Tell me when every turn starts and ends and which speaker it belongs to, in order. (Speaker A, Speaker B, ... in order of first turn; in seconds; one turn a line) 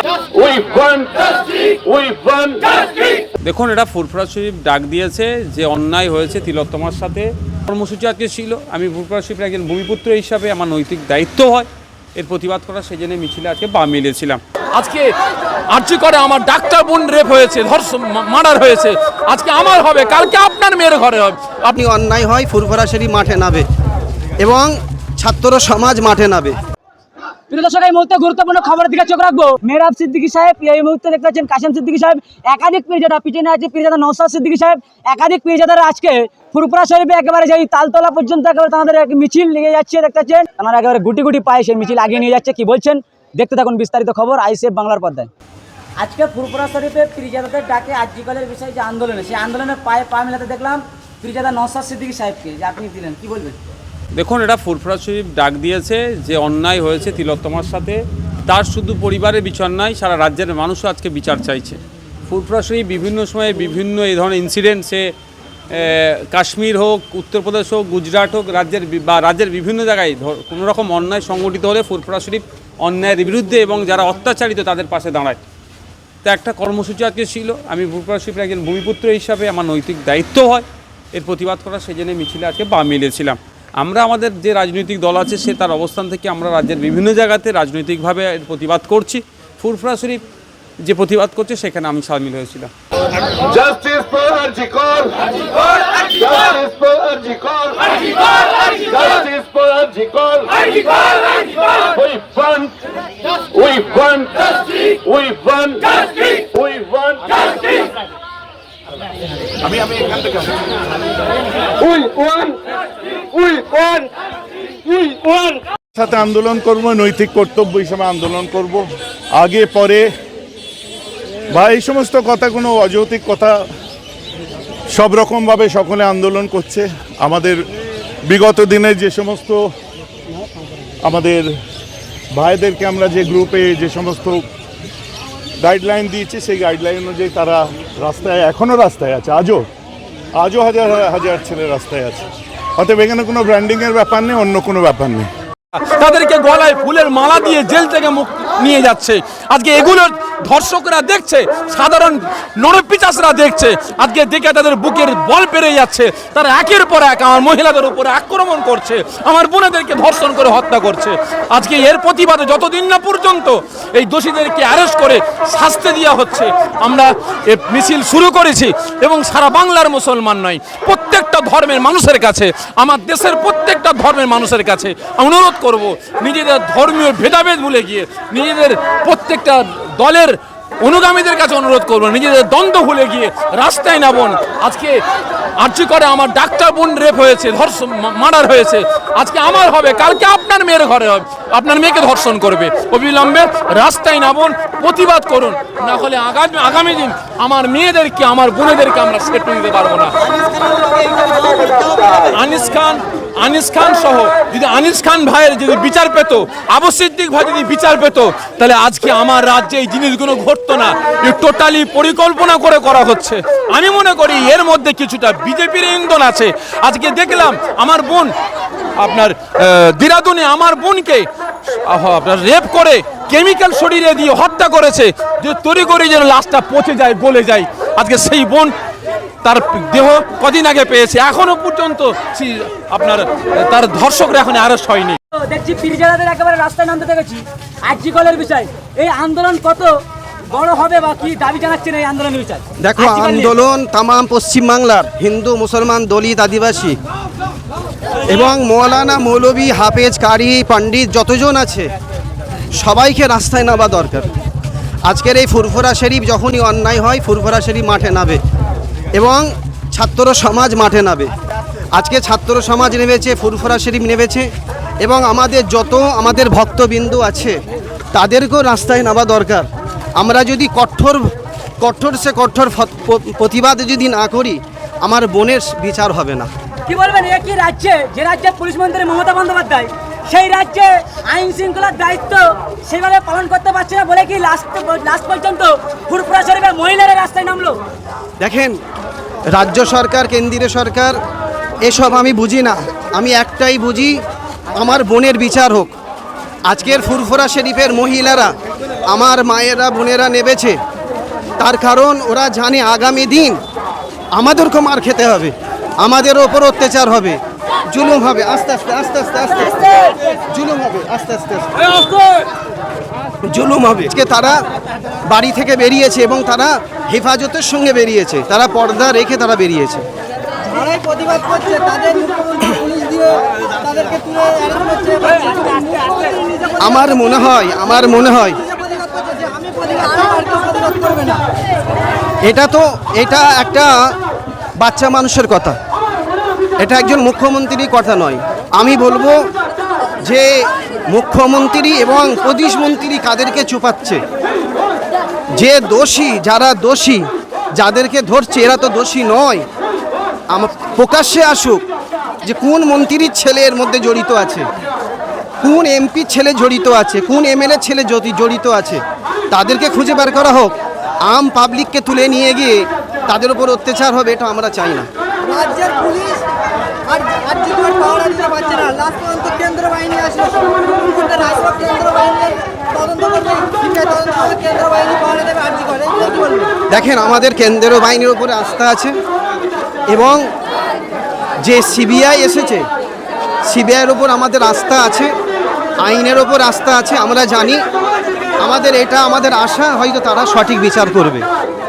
Speaker A: 0.3-3.2
Speaker B: 3.4-14.4
Speaker C: 14.8-15.1
Speaker C: 15.7-21.8
Speaker D: 21.7-23.6
Speaker D: 24.4-26.6
Speaker E: 27.5-45.3
Speaker E: 46.0-53.6
Speaker B: 54.1-65.1
Speaker B: 65.7-75.4
Speaker B: 76.2-90.2
Speaker B: 90.8-92.7
Speaker A: 93.5-95.0
Speaker A: 96.2-97.9
Speaker A: 98.7-100.4
Speaker A: 101.8-102.7
Speaker A: 103.5-107.8
Speaker F: 109.7-110.5
Speaker A: 111.8-112.5
Speaker A: 113.4-114.0
Speaker A: 115.0-115.5
Speaker F: 115.9-118.8
Speaker F: 119.3-120.0
Speaker F: 121.5-123.6
Speaker F: 124.9-127.6
Speaker F: 128.2-129.7
Speaker F: 131.0-131.4
Speaker F: 132.3-134.4
Speaker F: 135.6-139.6
Speaker F: 140.4-142.2
Speaker F: 142.8-145.3
Speaker C: 145.8-185.0
Speaker C: 185.6-200.1
Speaker G: 200.5-200.8
Speaker E: 200.6-201.5
Speaker C: 201.6-218.3
Speaker C: 219.0-221.3
Speaker C: 221.8-228.7
Speaker C: 229.4-235.2
Speaker E: 235.3-240.0
Speaker E: 240.5-243.5
Speaker D: 242.8-247.0
Speaker D: 248.2-251.9
Speaker D: 252.8-254.3
Speaker D: 255.1-258.4
Speaker D: 259.1-261.3
Speaker D: 261.9-264.5
Speaker D: 265.0-267.6
Speaker D: 268.1-269.6
Speaker D: 270.2-271.2
Speaker D: 271.8-276.5
Speaker E: 276.9-287.8
Speaker D: 288.4-288.8
Speaker D: 289.5-291.1
Speaker D: 291.8-294.2
Speaker D: 294.8-295.9
Speaker D: 296.7-298.5
Speaker D: 299.1-300.8
Speaker D: 301.6-303.6
Speaker D: 304.3-307.4
Speaker D: 307.9-309.9
Speaker D: 310.5-311.8
Speaker E: 311.8-312.5
Speaker D: 313.4-314.6
Speaker D: 315.3-320.0
Speaker G: 320.6-325.7
Speaker E: 325.3-326.6
Speaker D: 326.8-328.6
Speaker G: 328.9-331.4
Speaker D: 332.4-333.9
Speaker D: 334.8-335.8
Speaker D: 336.8-339.4
Speaker D: 340.2-344.2
Speaker D: 345.6-347.2
Speaker D: 347.8-349.6
Speaker D: 350.5-351.8
Speaker D: 352.4-354.7
Speaker D: 355.6-360.7
Speaker D: 361.2-365.1
Speaker G: 365.5-366.4
Speaker G: 367.1-376.7
Speaker D: 376.9-379.1
Speaker D: 380.1-380.4
Speaker D: 381.6-382.8
Speaker D: 383.7-385.3
Speaker D: 386.0-387.8
Speaker D: 388.6-391.4